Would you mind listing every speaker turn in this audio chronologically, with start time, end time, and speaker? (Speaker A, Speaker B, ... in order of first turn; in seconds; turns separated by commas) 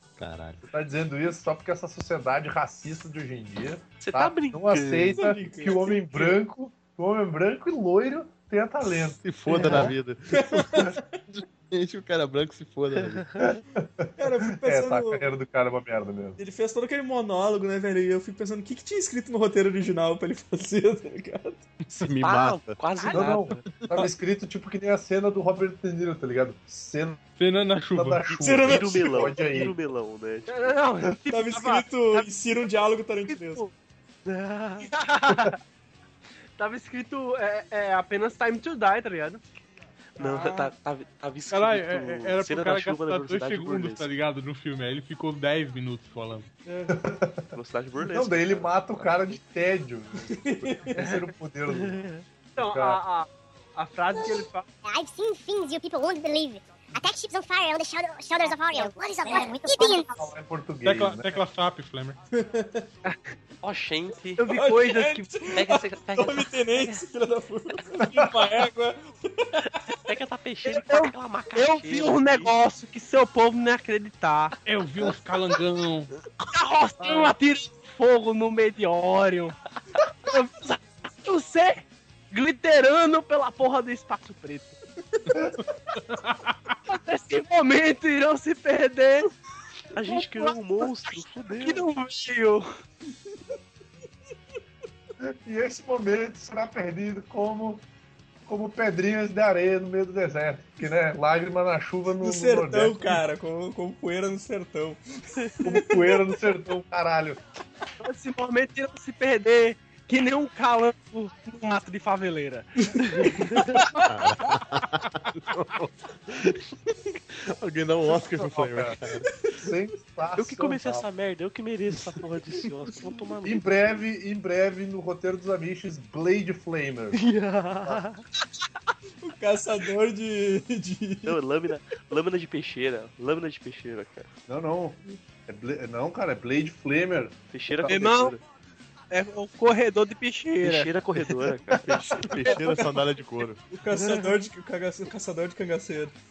Speaker A: 0.2-0.6, Speaker B: 0.6-9.9, Speaker C: 4.0-5.2, Speaker D: 5.2-6.4, Speaker A: 9.2-13.4, Speaker D: 9.5-11.1, Speaker C: 12.9-13.6, Speaker B: 13.4-14.1, Speaker D: 14.2-15.3, Speaker B: 14.6-16.4, Speaker D: 16.4-21.6, Speaker A: 21.9-22.8, Speaker C: 22.0-23.6, Speaker E: 23.0-23.3, Speaker B: 23.1-27.2, Speaker F: 27.4-28.2, Speaker B: 27.9-29.7, Speaker D: 28.4-28.9, Speaker C: 28.6-30.8, Speaker E: 30.5-32.3, Speaker D: 31.3-33.6, Speaker E: 33.3-33.7, Speaker C: 34.2-34.9, Speaker E: 34.8-35.6, Speaker E: 36.6-39.4, Speaker C: 40.2-44.1, Speaker D: 40.2-40.7, Speaker F: 41.5-46.5, Speaker D: 46.6-47.0, Speaker B: 46.9-52.0, Speaker C: 47.5-49.1, Speaker D: 50.3-51.1, Speaker C: 51.7-52.2, Speaker B: 52.6-53.0, Speaker E: 52.6-54.7, Speaker G: 54.8-60.3, Speaker E: 58.4-60.0, Speaker B: 60.0-61.4, Speaker F: 60.8-62.2, Speaker D: 62.4-62.8, Speaker C: 63.6-64.4, Speaker E: 64.4-65.4, Speaker D: 64.5-69.8, Speaker C: 65.5-67.0, Speaker B: 68.0-68.3, Speaker C: 69.9-72.5, Speaker E: 70.6-74.5, Speaker F: 74.6-76.1, Speaker E: 76.5-79.5, Speaker E: 80.3-84.8, Speaker F: 85.9-86.8, Speaker E: 86.9-89.3, Speaker C: 89.9-91.9, Speaker E: 90.0-92.6, Speaker B: 95.4-97.8, Speaker B: 98.5-103.2, Speaker D: 102.2-106.2, Speaker B: 105.6-107.4, Speaker E: 108.0-112.7, Speaker C: 113.1-113.8, Speaker A: 114.0-119.2, Speaker B: 118.4-119.0, Speaker B: 119.5-121.0, Speaker C: 120.4-124.0, Speaker B: 123.4-127.2, Speaker C: 127.1-128.2, Speaker D: 129.2-131.4, Speaker C: 131.2-134.3, Speaker B: 134.5-137.9, Speaker C: 137.5-138.4, Speaker E: 137.8-138.3, Speaker E: 139.1-140.9, Speaker C: 140.6-142.4, Speaker B: 141.9-142.2, Speaker A: 142.2-143.6, Speaker D: 143.7-146.1, Speaker C: 143.9-144.3